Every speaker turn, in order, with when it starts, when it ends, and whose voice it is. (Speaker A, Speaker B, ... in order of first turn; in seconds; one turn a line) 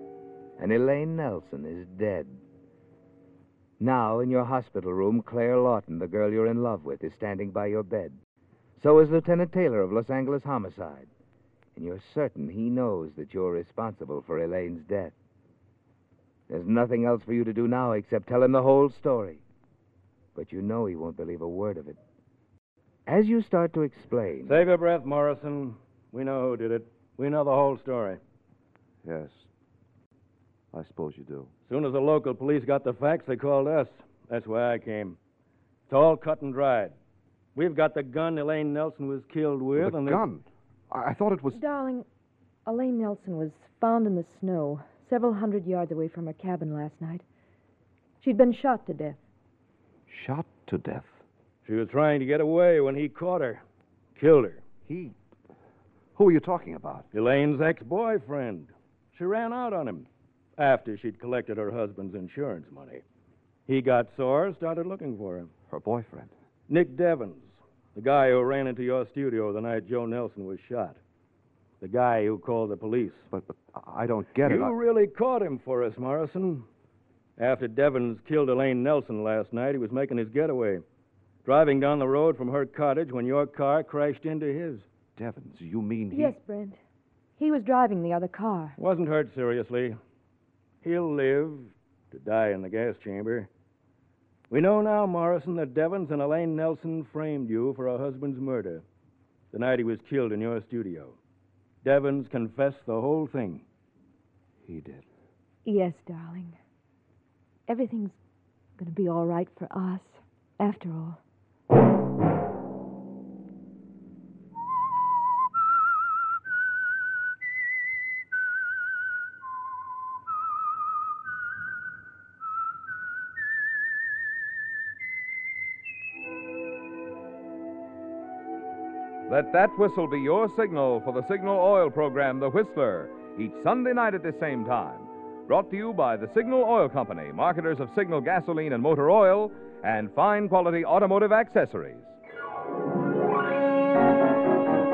Speaker A: 0.6-2.4
Speaker A: 3.8-8.2
Speaker A: 8.8-11.1
Speaker A: 11.8-15.2
Speaker A: 16.5-19.4
Speaker A: 20.4-22.0
Speaker A: 23.1-24.6
Speaker B: 24.5-28.2
Speaker C: 29.0-29.5
Speaker C: 30.7-31.5
Speaker B: 31.7-35.2
Speaker B: 35.9-37.0
Speaker B: 37.5-40.2
Speaker C: 39.8-41.6
Speaker D: 41.5-42.1
Speaker D: 42.7-47.2
Speaker D: 48.2-49.2
Speaker C: 50.1-51.2
Speaker B: 51.6-53.6
Speaker B: 54.1-54.6
Speaker C: 54.9-55.2
Speaker C: 56.2-57.1
Speaker B: 57.1-63.0
Speaker B: 63.7-65.5
Speaker C: 65.7-66.3
Speaker B: 66.7-71.0
Speaker B: 71.8-73.3
Speaker C: 73.3-74.8
Speaker B: 74.5-76.7
Speaker B: 77.4-80.8
Speaker B: 81.4-84.9
Speaker C: 85.2-86.4
Speaker D: 86.1-86.8
Speaker D: 87.4-88.8
Speaker B: 88.8-90.0
Speaker B: 90.8-93.5
Speaker B: 94.5-98.8
Speaker B: 99.5-101.2
Speaker B: 101.8-103.7
Speaker C: 104.6-105.0
Speaker D: 105.7-106.6
Speaker D: 107.7-108.2
Speaker D: 108.8-111.2
Speaker E: 129.3-142.2